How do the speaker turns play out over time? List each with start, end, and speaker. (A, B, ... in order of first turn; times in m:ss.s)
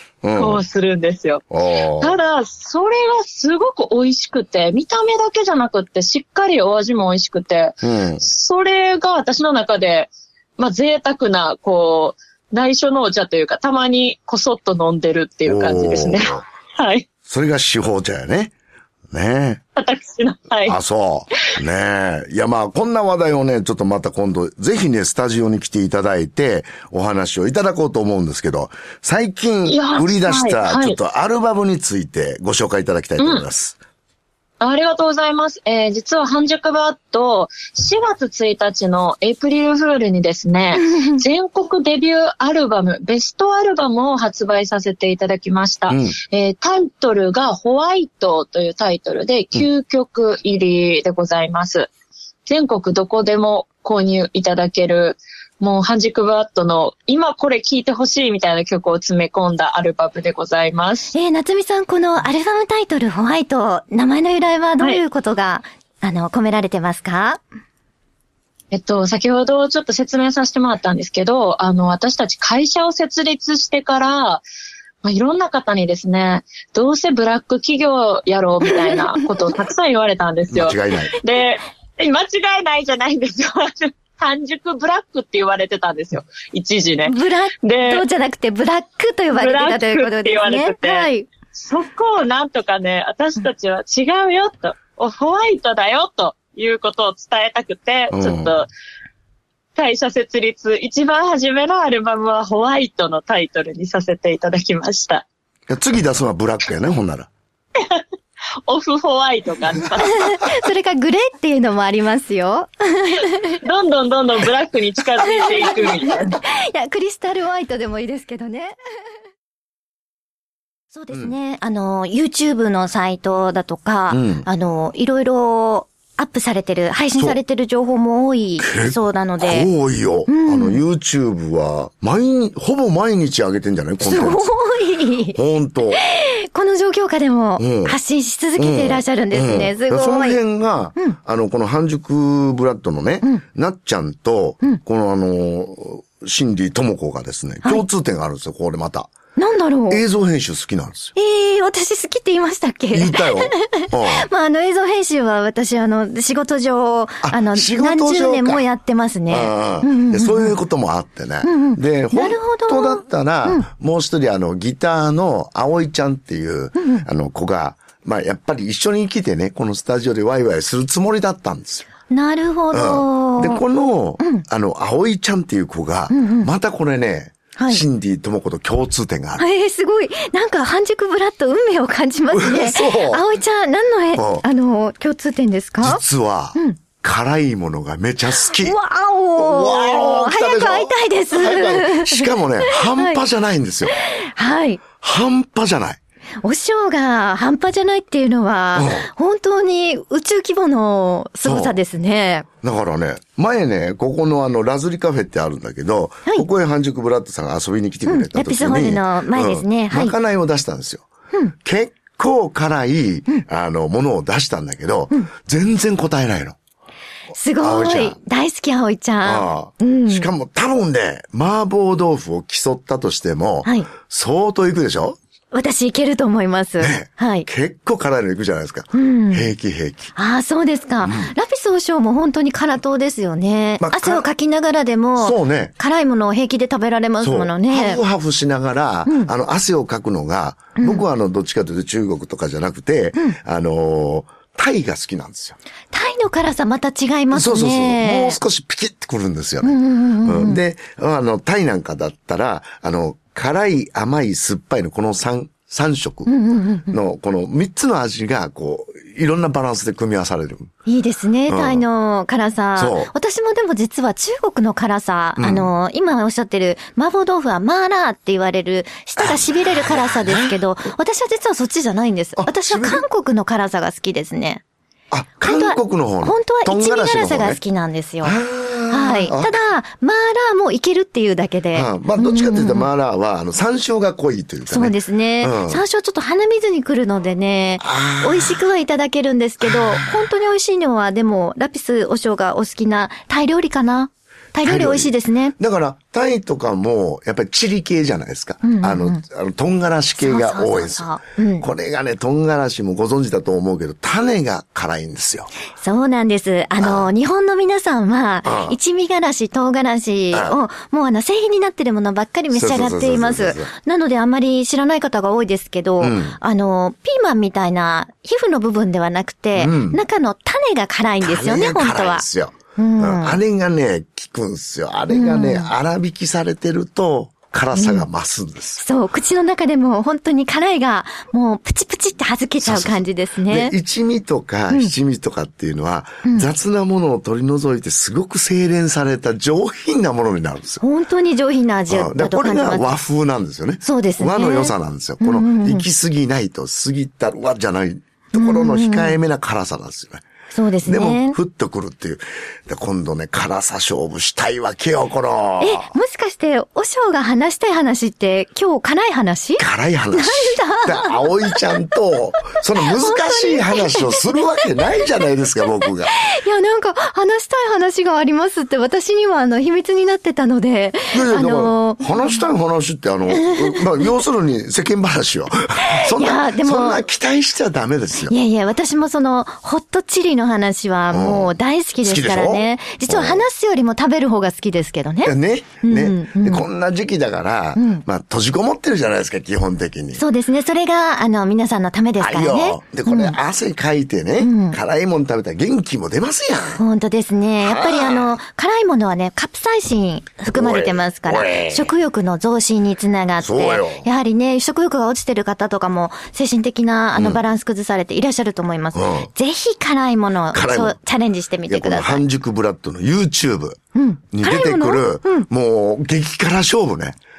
0:00.2-0:00.6 A
0:00.4-0:01.4 B
0:01.5-0:02.2 A
0:02.0-0:17.0 B
0:07.8-0:08.2 A
0:15.4-0:16.4 A
0:17.2-0:18.5 A
0:19.1-0:19.6 A
0:19.8-0:20.8 B
0:20.6-0:33.8 A
0:29.7-0:31.0 B
0:33.2-0:33.4 B
0:34.6-0:51.9 B
0:40.7-0:41.2 C
0:45.9-0:46.2 A
0:52.4-1:01.1 B
1:01.1-1:07.4 C
1:08.7-1:14.4 B
1:15.0-1:28.0 B
1:18.6-1:19.2 C
1:20.5-1:21.1 A
1:27.0-1:31.3 C
1:29.3-1:38.7 B
1:38.1-1:38.5 A
1:39.7-1:45.2 B
1:45.7-1:47.3 A
1:47.8-1:48.0 B
1:48.6-1:50.3 B
1:50.0-1:53.6 C
1:53.6-1:56.4 B
1:55.2-1:58.8 C
2:00.9-2:09.7 C
2:04.1-2:04.4 A
2:08.6-2:14.5 A
2:10.3-2:10.8 C
2:14.0-2:15.4 C
2:15.3-2:16.0 A
2:15.9-2:20.4 C
2:17.6-2:18.0 A
2:18.6-2:29.1 A
2:29.4-2:30.0 C
2:29.9-2:31.1 A
2:31.2-2:40.5 C
2:32.9-2:34.3 A
2:37.2-2:38.6 A
2:39.3-2:51.9 A
2:41.4-2:43.6 C
2:46.8-2:47.0 C
2:52.1-2:53.6 C
2:52.7-2:59.4 A
2:56.1-2:56.5 C
2:57.6-2:57.8 C
2:59.4-3:06.0 C
3:02.3-3:03.2 A
3:04.2-3:04.4 A
3:05.8-3:08.8 A
3:08.3-3:13.2 C
3:09.4-3:13.9 A
3:13.9-3:14.8 C
3:15.0-3:16.0 A
3:16.4-3:22.5 C
3:18.7-3:19.1 A
3:21.4-3:21.8 A
3:22.6-3:31.1 A
3:28.0-3:30.1 C
3:31.6-3:36.6 A
3:37.3-3:40.3 C
3:37.6-3:38.2 A
3:39.2-3:45.2 A
3:45.5-3:47.5 C
3:46.8-3:50.1 A
3:48.9-3:49.5 C
3:50.2-3:58.0 C
3:51.0-3:51.3 A
3:53.8-3:54.2 A
3:55.2-3:55.7 A
3:57.2-4:05.6 A
4:00.8-4:01.0 C
4:05.9-4:08.4 C
4:07.3-4:16.3 A
4:09.6-4:10.6 C
4:16.2-4:17.0 C
4:16.9-4:20.7 A
4:20.8-4:34.6 C
4:21.5-4:21.8 A
4:22.8-4:23.1 A
4:25.4-4:25.7 A
4:29.2-4:30.6 A
4:32.4-4:33.0 A
4:35.1-4:37.6 A
4:35.4-4:38.4 C
4:38.2-4:39.6 A
4:38.9-4:42.9 C
4:41.7-4:45.8 A
4:44.7-4:55.5 C
4:47.8-4:48.6 A
4:49.6-4:50.2 A
4:54.6-5:05.5 A
4:58.6-4:59.2 C
5:00.2-5:01.7 C
5:05.8-5:22.2 C
5:06.8-5:07.1 A
5:08.4-5:08.8 A
5:10.3-5:10.6 A
5:12.5-5:13.7 A
5:16.0-5:16.4 A
5:19.5-5:20.0 A
5:21.2-5:28.8 A
5:22.8-5:23.4 C
5:25.1-5:25.7 C
5:27.7-5:28.1 C
5:28.8-5:33.7 C
5:32.6-5:40.8 A
5:40.8-5:42.9 C
5:41.9-5:50.2 A
5:43.8-5:45.8 C
5:48.3-5:49.2 C
5:50.5-5:51.4 C
5:50.8-5:55.9 A
5:55.6-6:01.6 C
5:59.6-6:06.2 A
6:02.8-6:05.0 C
6:06.2-6:12.4 C
6:11.1-6:18.3 A
6:13.3-6:14.0 C
6:15.8-6:17.0 C
6:18.3-6:26.6 C
6:21.1-6:23.4 A
6:25.2-6:30.2 A
6:27.8-6:28.0 C
6:30.2-6:33.4 C
6:32.2-6:36.8 A
6:34.4-6:34.8 C
6:36.8-6:52.2 C
6:37.6-6:38.3 A
6:40.5-6:41.9 A
6:43.4-6:44.0 A
6:47.2-6:47.4 A
6:48.9-6:49.3 A
6:50.5-6:51.0 A
6:51.7-6:53.8 A
6:53.9-6:55.5 C
6:54.3-6:57.2 A